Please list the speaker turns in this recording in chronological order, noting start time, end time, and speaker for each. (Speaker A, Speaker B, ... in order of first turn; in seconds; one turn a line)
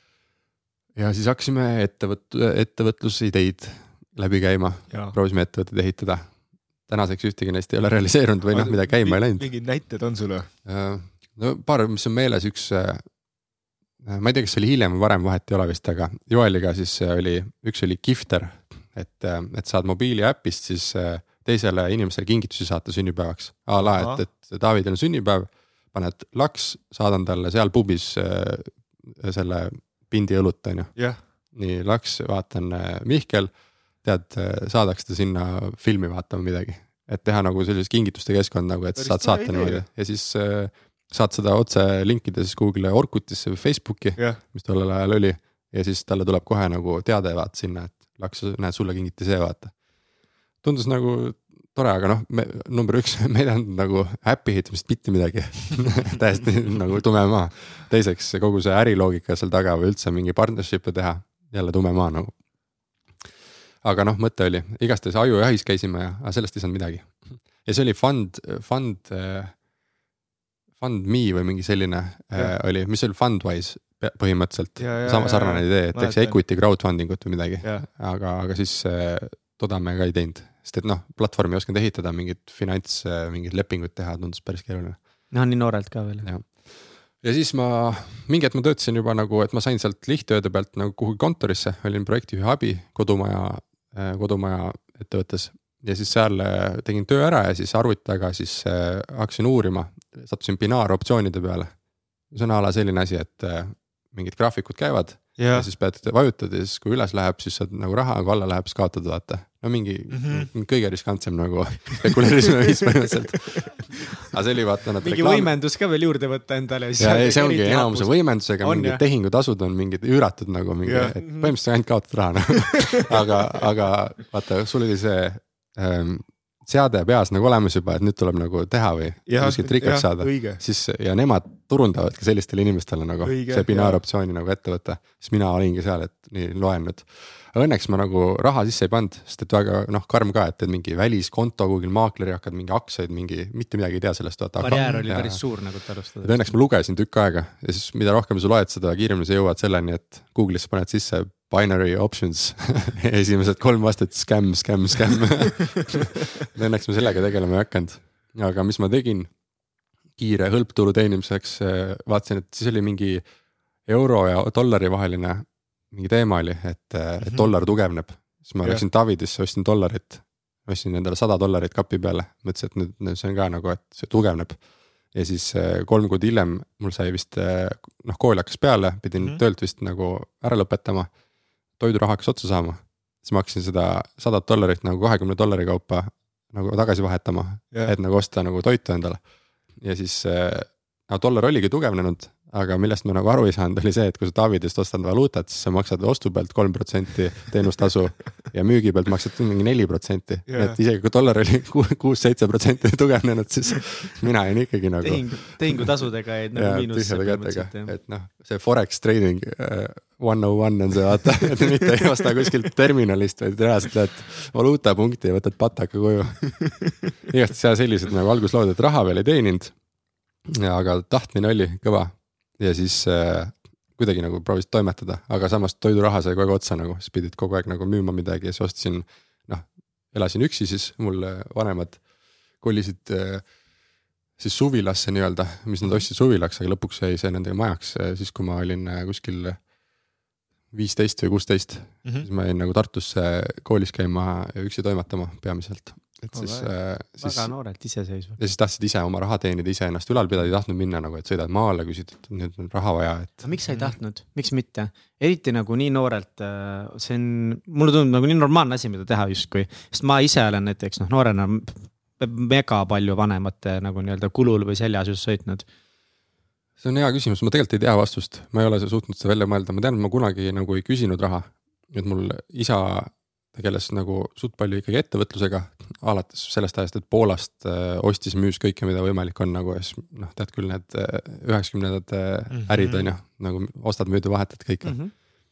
Speaker A: 0.9-6.2
Speaker A: 6.9-9.5
Speaker B: 8.5-10.5
Speaker A: 10.7-13.0
Speaker A: 14.0-30.9
Speaker B: 23.8-24.2
Speaker A: 31.5-33.5
Speaker A: 34.0-49.7
Speaker B: 39.0-39.8
Speaker A: 50.6-62.3
Speaker A: 63.8-69.5
Speaker A: 70.8-85.0
Speaker B: 74.8-76.3
Speaker C: 85.3-86.3
Speaker A: 86.2-86.7
Speaker A: 87.2-101.7
Speaker A: 102.3-115.5
Speaker B: 105.4-105.7
Speaker B: 110.1-110.5
Speaker B: 111.9-112.2
Speaker B: 113.1-113.9
Speaker C: 115.0-119.0
Speaker A: 117.0-145.4
Speaker B: 120.8-121.5
Speaker B: 122.5-123.5
Speaker B: 129.3-130.6
Speaker B: 133.2-134.0
Speaker C: 144.6-146.5
Speaker B: 144.7-145.1
Speaker A: 146.2-159.3
Speaker A: 160.2-163.2
Speaker A: 163.9-174.6
Speaker B: 167.2-167.5
Speaker A: 175.1-181.1
Speaker A: 181.8-189.2
Speaker A: 189.8-205.9
Speaker B: 200.5-200.8
Speaker C: 205.0-207.9
Speaker A: 206.5-219.7
Speaker A: 220.4-232.0
Speaker A: 232.6-233.4
Speaker A: 234.4-239.6
Speaker A: 240.7-247.5
Speaker B: 246.3-246.7
Speaker C: 247.2-248.4
Speaker A: 248.4-253.5
Speaker C: 253.4-265.6
Speaker A: 266.8-284.9
Speaker B: 282.5-283.1
Speaker C: 284.8-285.1